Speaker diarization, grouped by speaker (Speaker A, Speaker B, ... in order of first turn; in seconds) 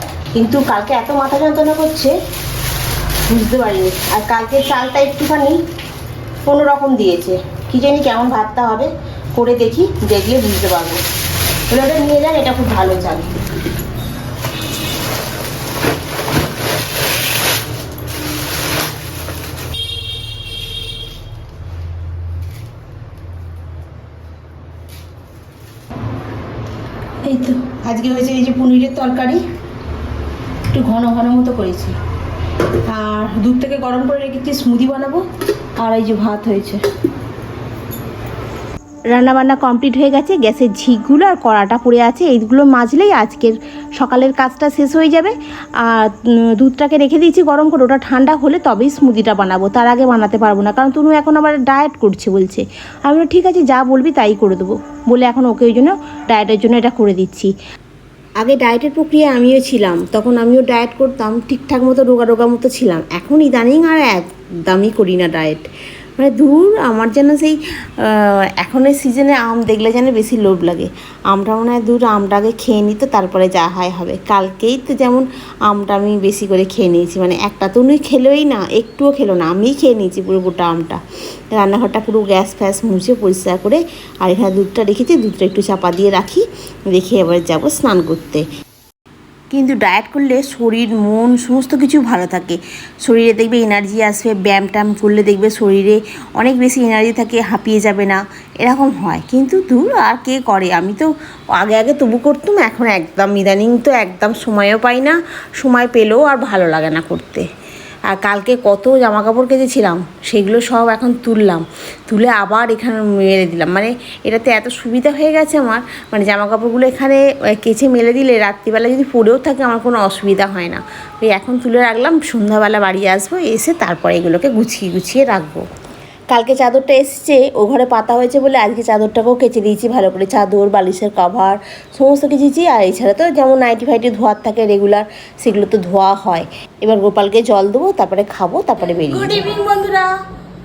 Speaker A: 0.3-2.1, 3.3-5.6, 6.4-11.0, 11.7-13.3, 27.2-29.4, 30.7-31.9, 32.8-35.2, 35.8-36.8, 39.1-57.5, 58.4-65.7, 66.2-81.0, 81.5-88.5, 89.5-107.5, 108.1-125.6, 126.3-140.1